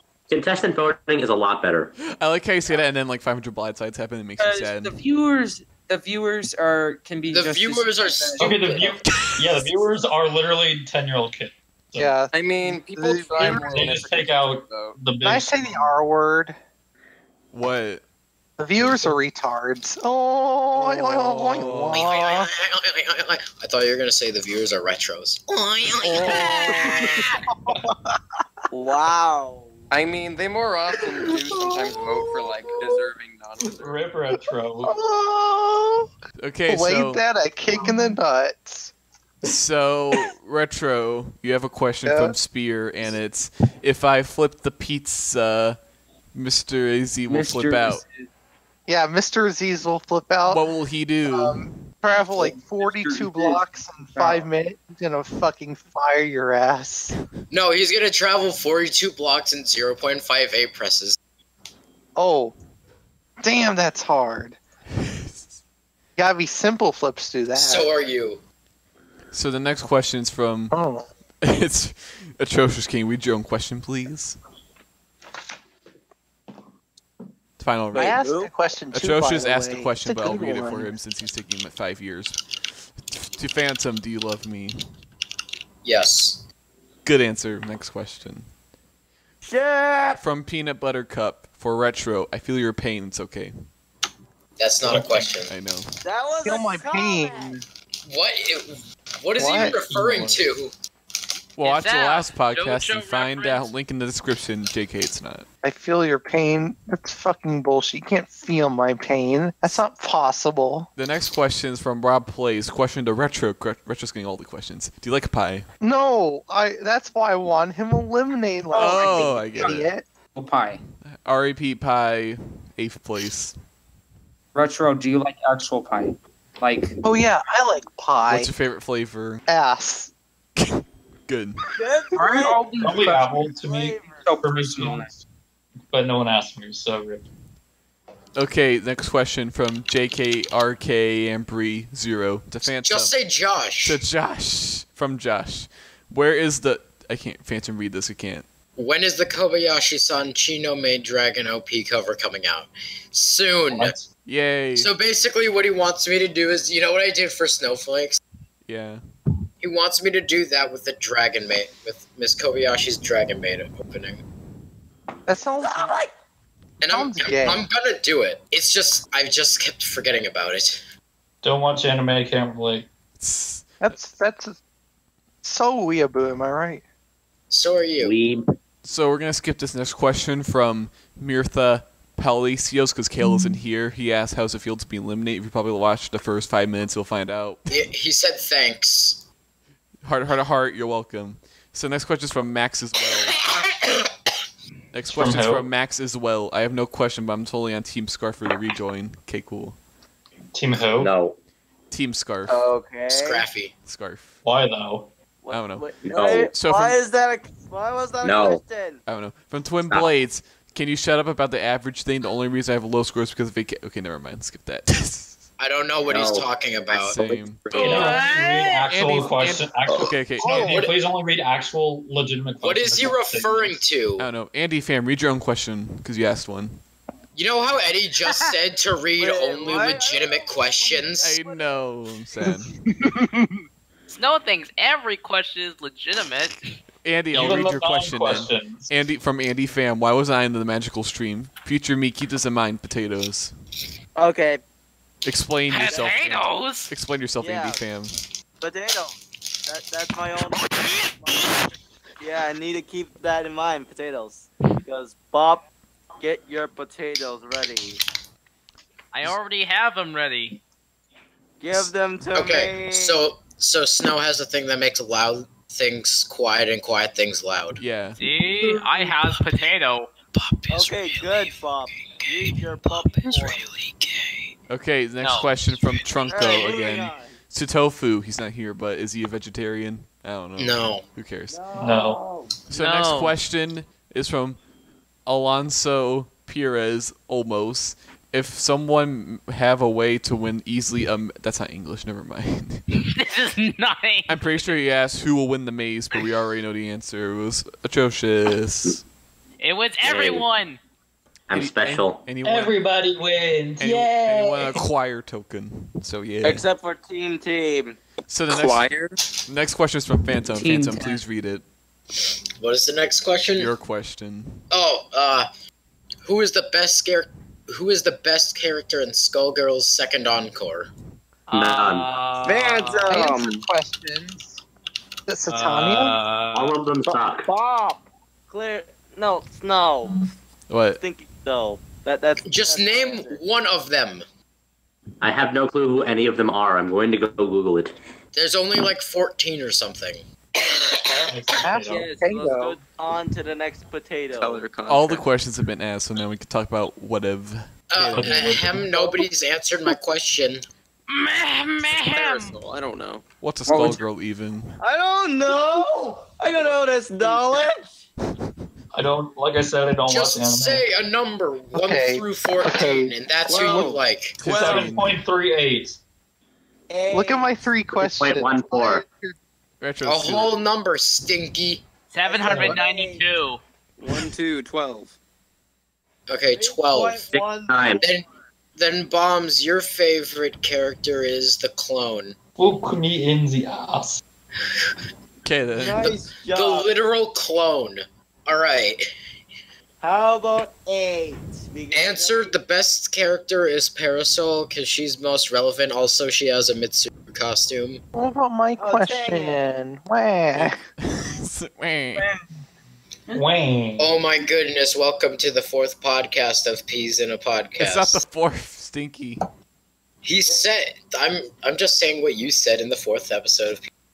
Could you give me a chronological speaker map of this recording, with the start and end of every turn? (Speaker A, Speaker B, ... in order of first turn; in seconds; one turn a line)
Speaker A: 0.3-1.9
Speaker B: 2.1-5.0
Speaker C: 4.4-9.0
Speaker D: 7.3-8.9
Speaker E: 8.4-12.2
Speaker F: 12.0-14.1
Speaker G: 12.3-15.0
Speaker E: 13.3-15.9
Speaker F: 15.2-16.6
Speaker B: 17.5-18.0
Speaker F: 18.6-22.5
Speaker B: 20.8-22.0
Speaker D: 21.9-27.7
Speaker H: 26.2-26.9
Speaker F: 26.2-28.2
Speaker I: 28.7-29.8
Speaker G: 29.9-34.0
Speaker F: 31.3-33.0
Speaker E: 33.7-35.0
Speaker F: 34.3-36.1
Speaker B: 36.4-37.2
Speaker F: 36.7-38.9
Speaker B: 39.4-45.8
Speaker F: 42.0-42.4
Speaker B: 46.3-48.0
Speaker C: 47.3-48.3
Speaker F: 48.9-50.6
Speaker B: 50.5-51.8
Speaker F: 51.3-57.2
Speaker C: 52.4-54.5
Speaker D: 57.5-61.2
Speaker F: 62.2-62.5
Speaker F: 63.4-64.6
Speaker B: 65.0-65.4
Speaker F: 66.2-67.9
Speaker D: 67.6-68.4
Speaker B: 69.3-70.8
Speaker F: 70.7-71.1
Speaker B: 71.4-74.4
Speaker B: 77.6-78.2
Speaker I: 77.9-78.5
Speaker F: 77.9-81.0
Speaker B: 78.9-82.4
Speaker B: 83.0-84.8
Speaker D: 85.8-86.4
Speaker B: 87.0-88.5
Speaker I: 89.4-90.2
Speaker B: 90.2-93.5
Speaker D: 94.6-95.5
Speaker E: 94.8-95.3
Speaker B: 95.5-95.9
Speaker I: 96.0-97.6
Speaker F: 96.4-97.7
Speaker D: 98.1-100.7
Speaker F: 99.4-99.8
Speaker E: 99.5-100.4
Speaker B: 101.6-105.5
Speaker H: 101.6-103.7
Speaker F: 105.6-110.9
Speaker B: 111.0-115.7
Speaker F: 115.8-120.0
Speaker C: 118.7-120.8
Speaker B: 118.7-119.9
Speaker B: 121.0-123.6
Speaker C: 124.5-127.0
Speaker F: 127.0-128.5
Speaker B: 128.2-129.4
Speaker F: 129.5-130.1
Speaker B: 130.6-131.6
Speaker I: 131.8-134.4
Speaker C: 132.1-133.5
Speaker E: 132.8-135.2
Speaker C: 134.0-135.1
Speaker E: 135.9-137.2
Speaker B: 138.4-143.1
Speaker D: 142.6-144.0
Speaker B: 143.8-148.5
Speaker D: 148.8-153.9
Speaker E: 153.7-154.1
Speaker B: 154.3-154.9
Speaker D: 154.8-158.2
Speaker B: 158.7-159.0
Speaker D: 159.6-164.2
Speaker F: 165.3-165.9
Speaker I: 165.6-166.1
Speaker D: 166.8-170.8
Speaker F: 166.9-167.7
Speaker E: 171.4-172.9
Speaker B: 173.2-173.7
Speaker F: 173.8-174.6
Speaker F: 175.4-176.8
Speaker D: 177.5-178.2
Speaker A: 178.0-178.5
Speaker B: 178.8-187.7
Speaker D: 187.7-189.2
Speaker B: 190.0-193.4
Speaker D: 193.4-194.0
Speaker B: 194.9-199.8
Speaker E: 195.1-195.7
Speaker E: 200.5-201.1
Speaker A: 200.9-201.4
Speaker B: 201.9-202.7
Speaker I: 202.5-203.5
Speaker D: 203.1-203.7
Speaker B: 203.9-204.3
Speaker E: 204.4-205.1
Speaker I: 205.4-209.0
Speaker B: 205.5-205.9
Speaker A: 206.0-206.6
Speaker B: 206.5-207.0
Speaker A: 208.2-208.6
Speaker B: 209.1-215.4
Speaker A: 209.9-210.1
Speaker D: 215.6-217.2
Speaker A: 216.1-216.5
Speaker B: 216.9-217.7
Speaker A: 217.2-218.2
Speaker E: 217.7-223.9
Speaker H: 217.7-218.9
Speaker B: 218.9-220.9
Speaker F: 220.4-220.9
Speaker D: 222.6-224.3
Speaker B: 224.2-226.8
Speaker D: 227.3-231.4
Speaker I: 229.2-231.6
Speaker B: 231.2-232.8
Speaker F: 232.9-233.5
Speaker H: 234.1-236.7
Speaker B: 237.0-243.5
Speaker E: 237.3-238.9
Speaker I: 244.2-244.6
Speaker B: 245.2-248.2
Speaker H: 245.7-246.9
Speaker I: 245.9-246.2
Speaker I: 247.4-247.8
Speaker I: 248.6-250.7
Speaker H: 250.7-251.1
Speaker I: 252.2-255.7
Speaker I: 256.2-258.0
Speaker H: 259.1-260.6
Speaker I: 261.6-263.3
Speaker D: 262.3-267.8
Speaker B: 267.8-268.2
Speaker H: 268.2-270.1
Speaker D: 268.6-269.4
Speaker D: 270.4-274.5
Speaker I: 270.7-273.6
Speaker B: 274.7-281.6
Speaker H: 275.2-275.5
Speaker I: 276.3-277.3
Speaker D: 280.6-281.0
Speaker I: 281.5-282.6
Speaker E: 281.8-282.2
Speaker H: 282.7-283.4
Speaker B: 282.7-284.6
Speaker B: 285.3-292.8
Speaker H: 293.0-294.7
Speaker B: 294.3-299.0
Speaker H: 299.6-300.8
Speaker A: 300.0-300.5
Speaker A: 301.5-302.3
Speaker B: 301.5-302.8
Speaker E: 302.4-304.8
Speaker B: 303.8-306.6
Speaker I: 306.4-308.0
Speaker B: 308.3-308.9
Speaker G: 308.5-309.2
Speaker B: 309.5-311.6
Speaker C: 310.5-311.2
Speaker D: 312.1-313.8
Speaker B: 313.6-314.6
Speaker D: 314.7-315.5
Speaker D: 316.2-320.9
Speaker H: 321.5-322.4
Speaker A: 321.5-322.2
Speaker E: 322.1-323.2
Speaker I: 322.4-323.5
Speaker F: 323.1-324.6
Speaker F: 325.3-326.2
Speaker E: 325.5-326.8
Speaker A: 326.5-327.5
Speaker I: 327.1-330.2
Speaker B: 330.7-331.0
Speaker I: 331.0-333.4
Speaker D: 332.4-334.2
Speaker A: 335.2-337.9
Speaker D: 338.3-341.2
Speaker E: 341.3-342.1
Speaker F: 341.6-342.8
Speaker I: 341.9-344.7
Speaker G: 344.3-345.3
Speaker B: 344.9-348.6
Speaker D: 347.9-350.7
Speaker E: 348.1-349.0
Speaker H: 351.1-352.6
Speaker D: 351.9-352.5
Speaker G: 352.0-353.2
Speaker B: 353.4-354.8
Speaker C: 353.7-354.0
Speaker I: 354.8-358.0
Speaker E: 358.9-360.9
Speaker D: 360.1-364.4
Speaker F: 361.7-363.1
Speaker I: 363.4-364.0
Speaker B: 364.4-365.2
Speaker E: 364.4-366.0
Speaker I: 366.9-367.5
Speaker F: 367.1-369.4
Speaker A: 367.9-369.0
Speaker B: 369.8-370.6
Speaker D: 370.1-371.9
Speaker H: 372.1-373.6
Speaker I: 372.2-373.3
Speaker G: 374.0-375.1
Speaker D: 376.3-377.3
Speaker I: 376.5-378.0
Speaker A: 377.3-378.1
Speaker D: 378.0-382.4
Speaker E: 382.6-384.2
Speaker D: 384.6-384.9
Speaker B: 385.4-386.2
Speaker I: 385.8-387.0
Speaker D: 385.9-389.0
Speaker I: 390.0-392.6
Speaker D: 391.9-398.0
Speaker F: 398.1-400.8
Speaker I: 398.8-399.8
Speaker B: 400.6-402.3
Speaker E: 403.3-404.2
Speaker D: 404.0-408.2
Speaker B: 407.8-409.4
Speaker D: 410.2-413.8